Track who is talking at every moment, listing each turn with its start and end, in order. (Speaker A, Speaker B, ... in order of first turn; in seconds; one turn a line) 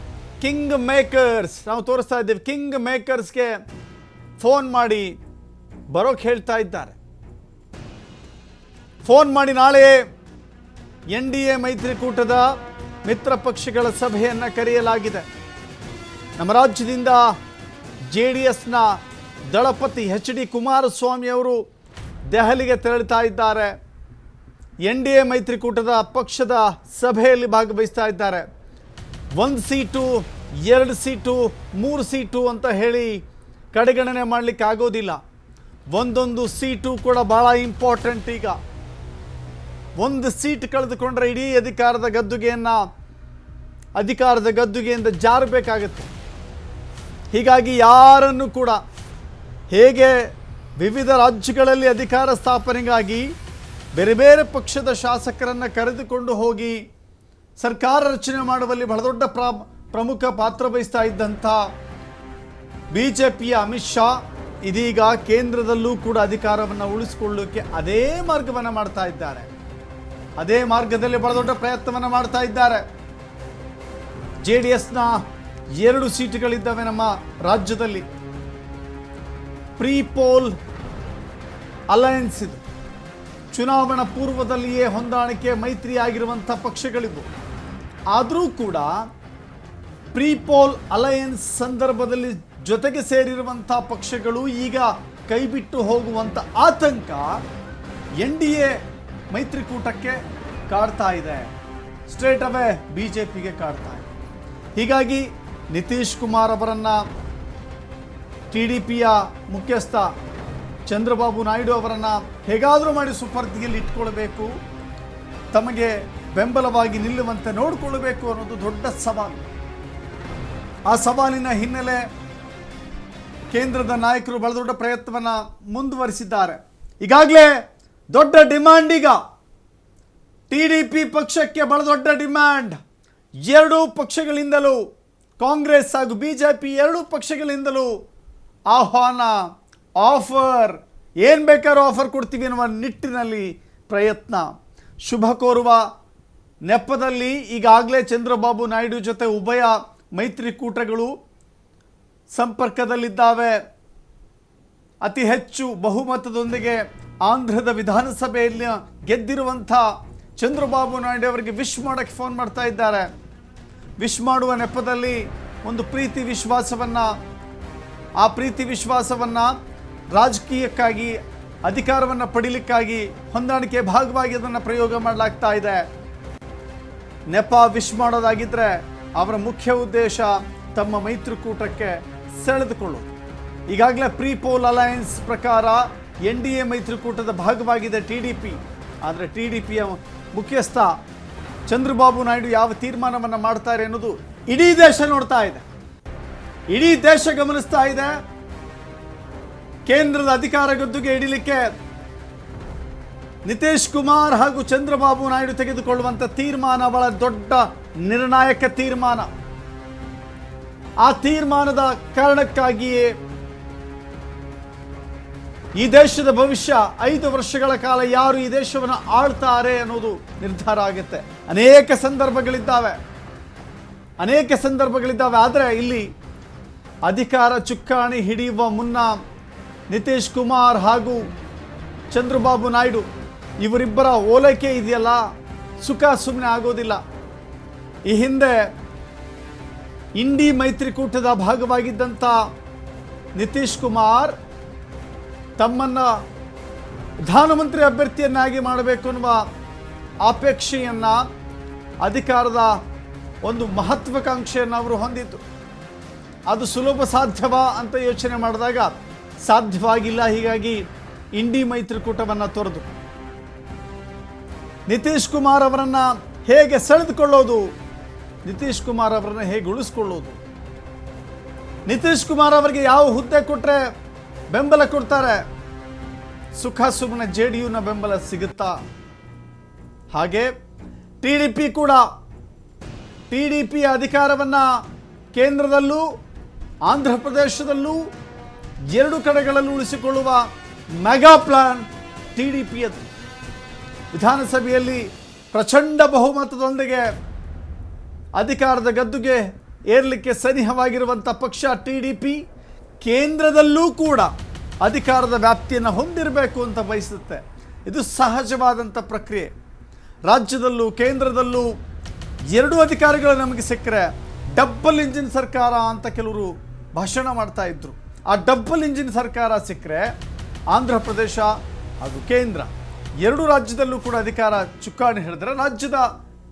Speaker A: 0.4-3.5
Speaker A: 4.4-5.1
Speaker A: 5.9-7.0
Speaker A: 9.0-10.0
Speaker A: 11.1-12.5
Speaker A: 13.1-15.2
Speaker A: 16.4-17.2
Speaker A: 18.1-18.9
Speaker A: 19.5-21.6
Speaker A: 22.3-23.7
Speaker A: 24.9-28.4
Speaker A: 29.4-33.2
Speaker A: 33.7-35.2
Speaker A: 35.9-38.6
Speaker A: 40.0-42.8
Speaker A: 44.0-46.1
Speaker A: 47.3-48.8
Speaker A: 49.7-50.2
Speaker A: 50.8-53.3
Speaker A: 54.0-56.8
Speaker A: 57.6-61.6
Speaker A: 62.9-64.1
Speaker A: 64.7-69.5
Speaker A: 70.4-72.8
Speaker A: 74.4-75.2
Speaker A: 75.8-78.0
Speaker A: 79.8-80.5
Speaker A: 81.9-82.6
Speaker A: 83.5-87.3
Speaker A: 88.1-89.0
Speaker A: 90.1-97.4
Speaker A: 98.2-98.7
Speaker A: 99.3-100.2
Speaker A: 100.7-101.5
Speaker A: 102.1-104.1
Speaker A: 104.8-107.0
Speaker A: 108.5-110.1
Speaker A: 110.9-114.5
Speaker A: 115.5-119.4
Speaker A: 120.9-122.0
Speaker A: 123.5-127.5
Speaker A: 128.1-129.2
Speaker A: 130.5-132.8
Speaker A: 133.5-134.8
Speaker A: 135.4-137.9
Speaker A: 138.7-139.4
Speaker A: 140.0-144.5
Speaker A: 145.1-145.8
Speaker A: 146.7-151.1
Speaker A: 152.4-153.6
Speaker A: 155.0-159.8
Speaker A: 160.4-163.1
Speaker A: 164.0-167.1
Speaker A: 168.2-169.5
Speaker A: 170.1-175.8
Speaker A: 177.3-183.1
Speaker A: 183.7-190.9
Speaker A: 191.7-195.6
Speaker A: 196.7-198.1
Speaker A: 199.9-201.7
Speaker A: 203.5-209.3
Speaker A: 211.0-213.1
Speaker A: 215.8-223.0
Speaker A: 224.2-226.1
Speaker A: 227.1-229.1
Speaker A: 229.9-231.2
Speaker A: 232.1-233.0
Speaker A: 233.6-235.2
Speaker A: 235.8-237.0
Speaker A: 238.1-238.6
Speaker A: 240.2-242.4
Speaker A: 243.4-244.3
Speaker A: 245.6-246.1
Speaker A: 247.3-249.4
Speaker A: 250.2-251.2
Speaker A: 252.0-252.7
Speaker A: 253.5-255.4
Speaker A: 256.5-258.9
Speaker A: 259.5-260.8
Speaker A: 261.4-262.9
Speaker A: 264.9-267.6
Speaker A: 268.4-270.4
Speaker A: 271.9-273.8
Speaker A: 274.5-275.4
Speaker A: 276.6-278.7
Speaker A: 280.1-280.5
Speaker A: 281.2-282.0
Speaker A: 283.3-284.7
Speaker A: 285.3-286.1
Speaker A: 286.9-288.0
Speaker A: 288.9-290.4
Speaker A: 291.0-291.8
Speaker A: 292.4-293.1
Speaker A: 294.1-297.0
Speaker A: 298.4-302.4
Speaker A: 303.0-304.3
Speaker A: 304.8-309.5
Speaker A: 310.3-311.7
Speaker A: 312.5-320.1
Speaker A: 320.7-321.5
Speaker A: 322.0-322.7
Speaker A: 323.2-326.1